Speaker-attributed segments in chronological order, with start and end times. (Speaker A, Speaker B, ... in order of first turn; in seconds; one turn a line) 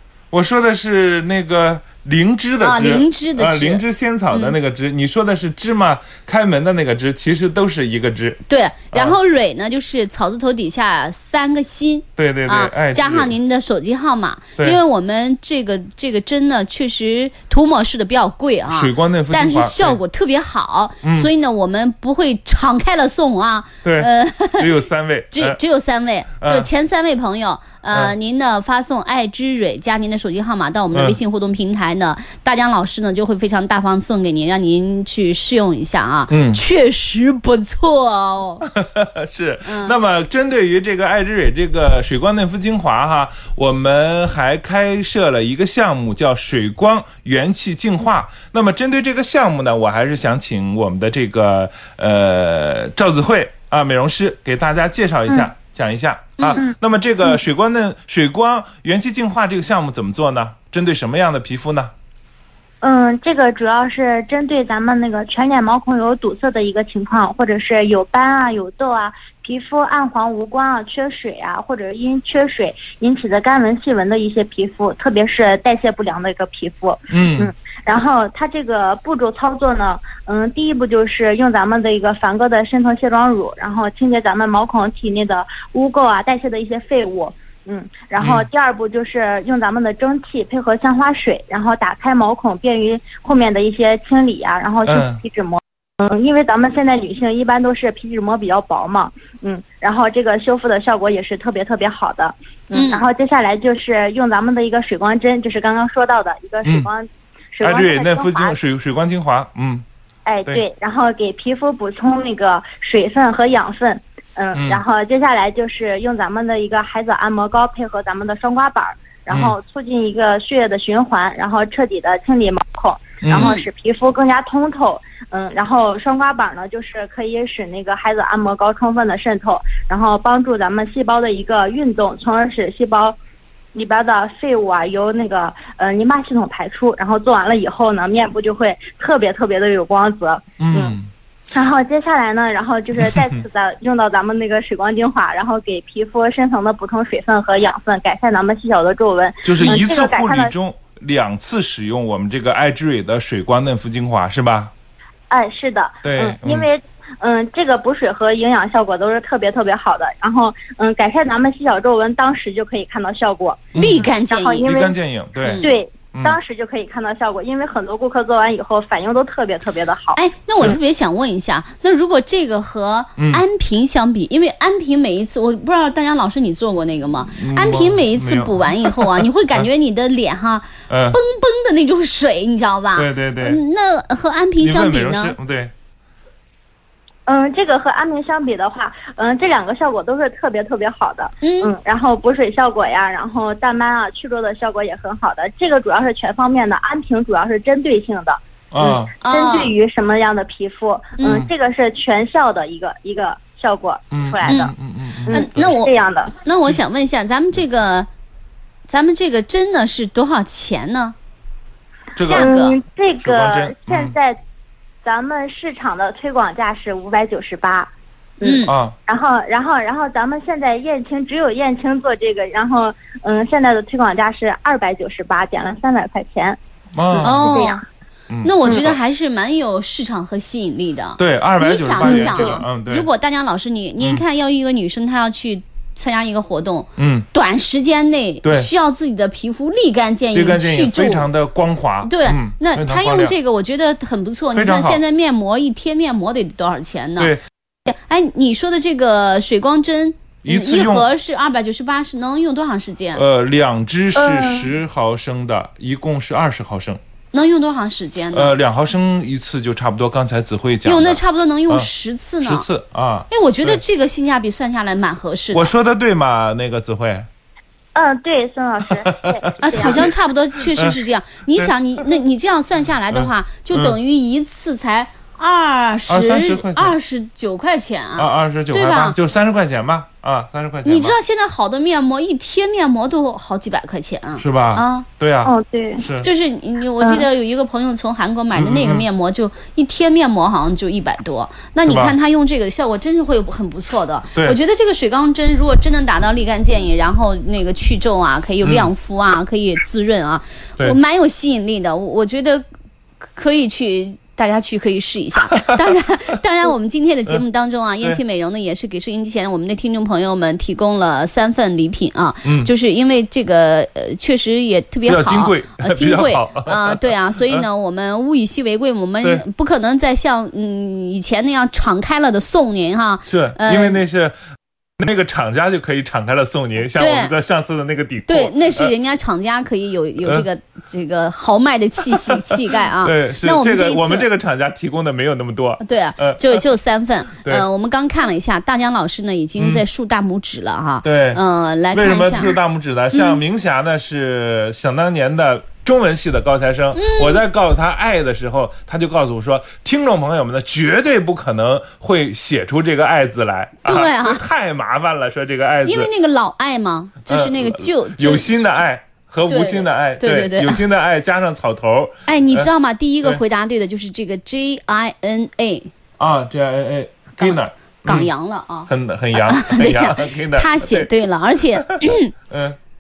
Speaker A: 0.3-9.2
Speaker B: 2.6-4.6
Speaker B: 8.5-24.7
Speaker A: 12.2-13.3
Speaker A: 18.7-20.0
Speaker A: 21.0-21.3
Speaker A: 23.8-25.6
Speaker B: 25.3-38.7
Speaker A: 26.4-26.7
Speaker A: 30.9-31.2
Speaker A: 36.3-36.6
Speaker A: 38.6-61.9
Speaker B: 39.6-40.0
Speaker C: 62.8-108.5
Speaker A: 77.1-77.5
Speaker A: 88.2-88.5
Speaker A: 94.9-95.2
Speaker B: 102.7-103.0
Speaker A: 107.6-109.8
Speaker C: 110.3-133.2
Speaker A: 114.5-114.8
Speaker A: 119.3-119.6
Speaker A: 123.2-123.5
Speaker B: 123.4-123.7
Speaker C: 133.7-141.0
Speaker A: 140.6-141.1
Speaker C: 141.5-150.5
Speaker A: 143.0-143.3
Speaker A: 149.4-154.7
Speaker C: 155.3-164.9
Speaker A: 156.0-156.7
Speaker A: 163.7-164.1
Speaker B: 163.8-164.7
Speaker A: 164.6-166.4
Speaker B: 165.4-165.7
Speaker C: 165.6-170.2
Speaker B: 170.2-185.4
Speaker A: 173.2-173.4
Speaker A: 177.4-179.7
Speaker A: 180.9-181.2
Speaker A: 183.0-183.6
Speaker A: 184.6-185.7
Speaker C: 187.3-204.7
Speaker B: 191.4-191.7
Speaker A: 198.7-199.1
Speaker B: 199.2-199.7
Speaker A: 201.2-201.5
Speaker A: 204.1-205.7
Speaker B: 204.4-204.7
Speaker B: 205.3-205.9
Speaker C: 205.3-206.3
Speaker B: 206.4-208.1
Speaker B: 208.9-211.2
Speaker A: 212.2-212.5
Speaker B: 212.3-212.8
Speaker C: 212.3-214.4
Speaker A: 213.2-214.2
Speaker C: 215.0-226.6
Speaker B: 218.4-218.7
Speaker A: 218.7-219.0
Speaker A: 226.9-227.6
Speaker C: 227.1-227.8
Speaker B: 227.2-227.8
Speaker A: 228.3-229.0
Speaker B: 228.4-241.3
Speaker A: 231.2-233.1
Speaker C: 232.0-232.6
Speaker A: 237.0-237.3
Speaker A: 238.4-238.7
Speaker A: 240.3-243.3
Speaker B: 242.0-247.3
Speaker A: 244.5-245.0
Speaker B: 247.9-253.2
Speaker A: 250.4-251.1
Speaker A: 253.1-257.0
Speaker C: 254.2-254.7
Speaker B: 257.3-258.5
Speaker A: 258.3-261.9
Speaker B: 260.8-262.7
Speaker A: 262.4-263.8
Speaker B: 263.3-265.7
Speaker A: 265.5-267.3
Speaker C: 267.9-270.1
Speaker A: 268.9-270.1
Speaker B: 269.6-279.2
Speaker A: 270.6-271.0
Speaker A: 273.1-274.0
Speaker A: 276.1-277.0
Speaker A: 278.2-281.2
Speaker B: 280.9-285.1
Speaker A: 284.4-286.3
Speaker C: 285.4-286.0
Speaker B: 286.2-302.6
Speaker C: 287.0-287.2
Speaker A: 288.6-289.1
Speaker A: 291.9-292.1
Speaker A: 298.6-298.9
Speaker B: 303.3-324.0
Speaker A: 312.4-312.7
Speaker A: 315.1-317.6
Speaker A: 323.3-324.4
Speaker A: 325.0-328.9
Speaker B: 327.0-327.3
Speaker B: 328.3-334.3
Speaker A: 332.1-336.6
Speaker B: 335.8-342.6
Speaker A: 339.6-339.8
Speaker A: 341.0-356.1
Speaker B: 343.1-343.4
Speaker B: 346.9-347.4
Speaker B: 353.9-354.4
Speaker B: 355.9-358.5
Speaker A: 357.3-362.7
Speaker B: 359.5-360.8
Speaker B: 362.3-365.9
Speaker A: 366.2-368.3
Speaker B: 367.4-372.3
Speaker A: 368.9-371.1
Speaker A: 371.7-372.8